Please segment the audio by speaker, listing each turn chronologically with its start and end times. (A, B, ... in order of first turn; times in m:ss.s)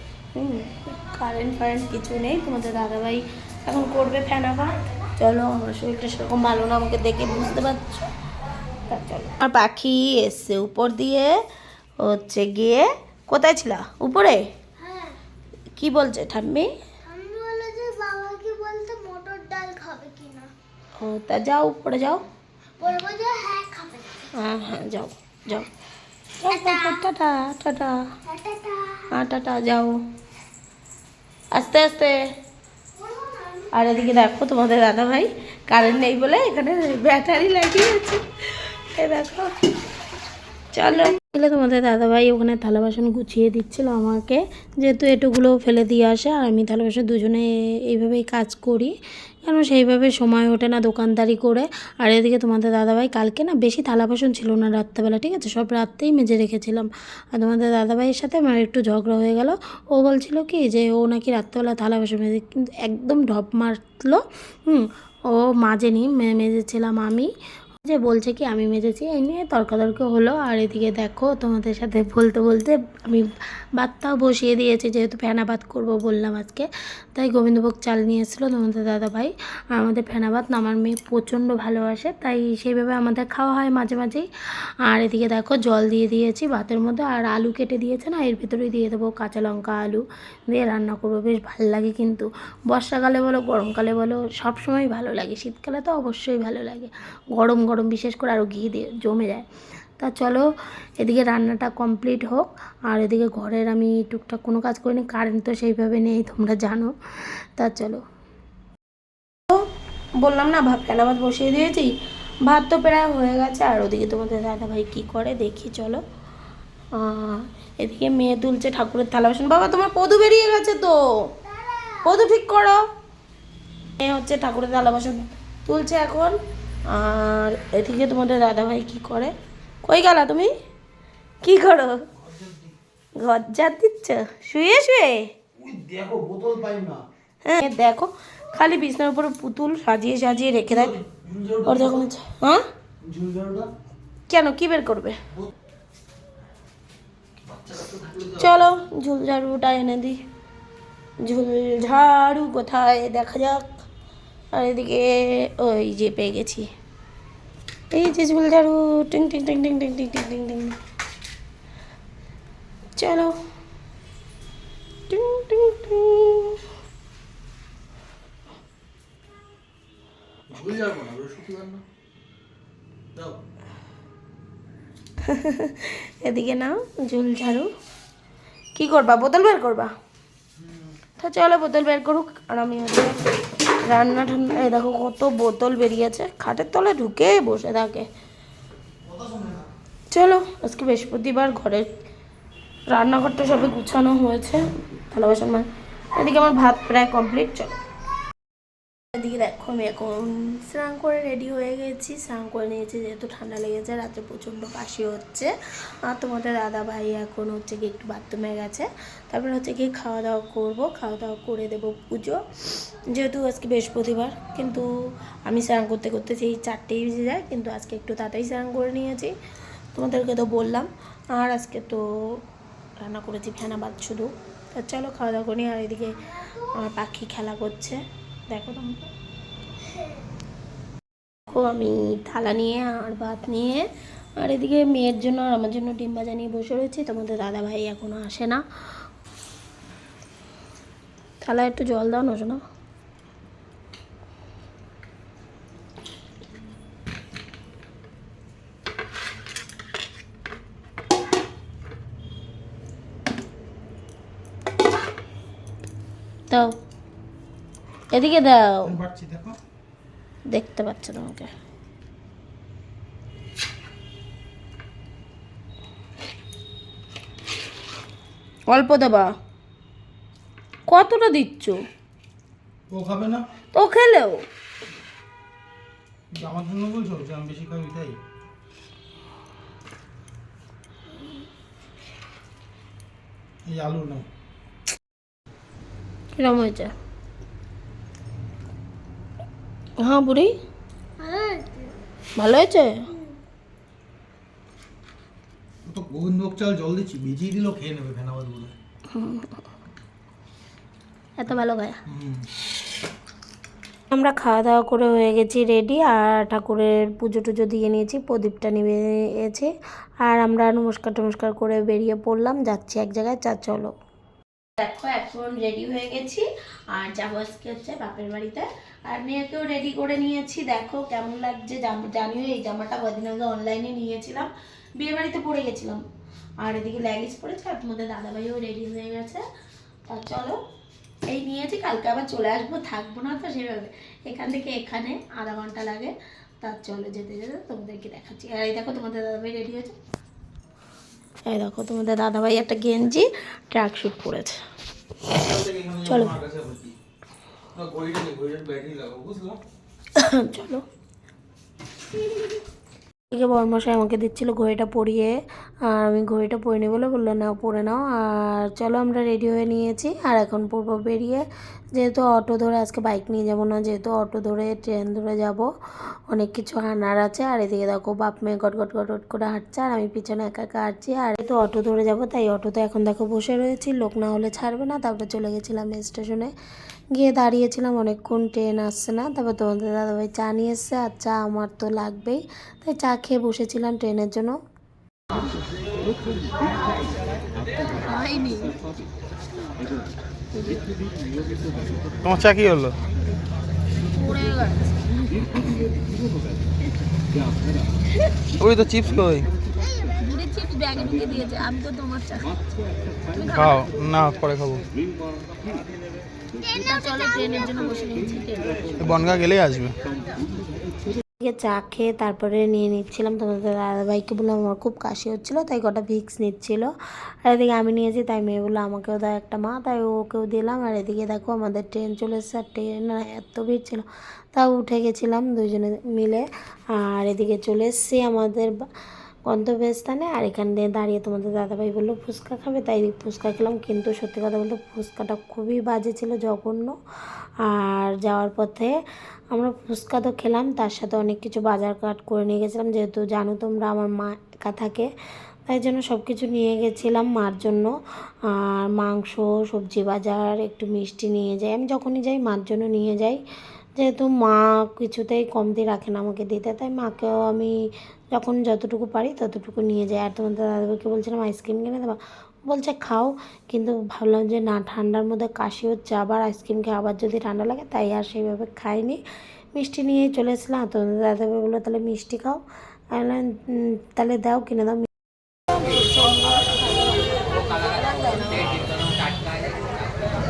0:00.3-0:08.1 A
0:08.9-0:11.3 A
0:12.0-0:14.4 A
0:14.8-0:15.1 B
0:15.8-0:16.7 A
0:17.0-0:20.5 B
0:21.0-0:22.2 A
0:22.8-0:24.3 B
0:24.3-0:25.7 A
0:26.4-0:28.0 A
0:26.5-0:27.0 B
0:28.2-0:29.1 B
0:29.1-0:30.0 A
0:31.5-0:32.2 A
0:33.0-0:33.6 B
0:33.7-0:39.5 A
0:40.7-0:48.9 A
0:49.4-1:07.3 A
1:07.8-1:24.2 A
1:24.9-1:39.5 A
1:40.0-1:40.5 A
1:41.0-1:46.9 A
1:47.6-1:48.0 A
1:50.2-1:51.9 A
1:52.4-1:56.0 A
1:56.9-2:01.3 A
2:01.4-2:02.0 B
2:02.0-2:02.8 A
2:04.0-2:06.4 A
2:06.9-2:10.5 A
2:11.4-2:12.0 A
2:12.2-2:12.7 C
2:13.2-2:15.3 A
2:15.6-2:17.0 C
2:17.4-2:21.0 A
2:20.7-2:22.0 C
2:21.6-2:22.6 A
2:23.0-2:23.7 C
2:24.3-2:25.2 A
2:27.4-2:28.6 C
2:28.4-2:30.2 A
2:31.2-2:33.6 A
2:34.5-2:36.7 A
2:37.9-2:40.8 A
2:43.0-2:43.3 A
2:45.1-2:46.6 A
2:50.5-2:51.8 C
2:55.2-2:57.7 A
2:58.7-2:59.9 A
3:01.2-3:03.2 A
3:03.8-3:08.1 A
3:09.0-3:09.7 C
3:10.1-3:11.9 A
3:12.9-3:17.8 A
3:19.1-3:25.5 A
3:26.0-3:34.9 A
3:35.4-3:39.3 A
3:39.9-3:42.0 A
3:43.0-3:49.1 A
3:51.5-3:53.8 A
3:54.4-3:58.6 A
4:01.4-4:02.6 A
4:16.5-4:16.7 A
4:18.1-4:18.9 A
4:18.8-4:19.6 C
4:20.5-4:21.5 A
4:28.7-4:29.3 A
4:30.9-4:31.8 A
4:32.9-4:33.4 C
4:33.7-4:34.4 A
4:36.3-4:38.2 C
4:43.6-4:44.2 C
4:46.3-4:46.9 A
4:50.0-4:50.5 A
4:51.2-4:51.9 B
4:52.4-4:53.1 A
4:55.8-4:58.7 C
4:59.1-4:59.6 A
5:01.4-5:02.0 A
5:02.1-5:02.5 C
5:04.1-5:09.7 A
5:10.2-5:13.9 A
5:14.8-5:26.0 A
5:26.6-5:29.4 A
5:30.1-5:30.6 A
5:31.3-5:40.0 A
5:41.5-5:44.6 A
5:45.3-5:46.9 C
5:46.0-5:46.3 A
5:47.7-5:49.6 C
5:50.2-5:50.8 A
5:53.3-5:55.3 A
5:55.9-6:01.4 A
6:01.9-6:05.7 A
6:06.3-6:16.5 A
6:17.1-6:24.6 A
6:28.0-6:28.8 A
6:32.2-6:33.0 C
6:34.1-6:35.7 A
6:38.5-6:39.5 C
6:40.1-6:42.6 A
6:43.3-6:43.9 A
6:43.5-6:44.8 C
6:46.7-6:47.7 B
6:46.7-6:48.8 A
6:49.0-6:50.0 C
6:51.4-6:56.9 A
6:57.4-7:08.7 A
7:09.4-7:17.0 A
7:17.6-7:19.0 A
7:19.5-7:25.1 A
7:25.6-7:27.9 A
7:28.5-7:33.4 A
7:34.0-7:37.7 A
7:38.3-7:49.2 A
7:49.7-7:55.1 A
7:55.7-7:58.8 A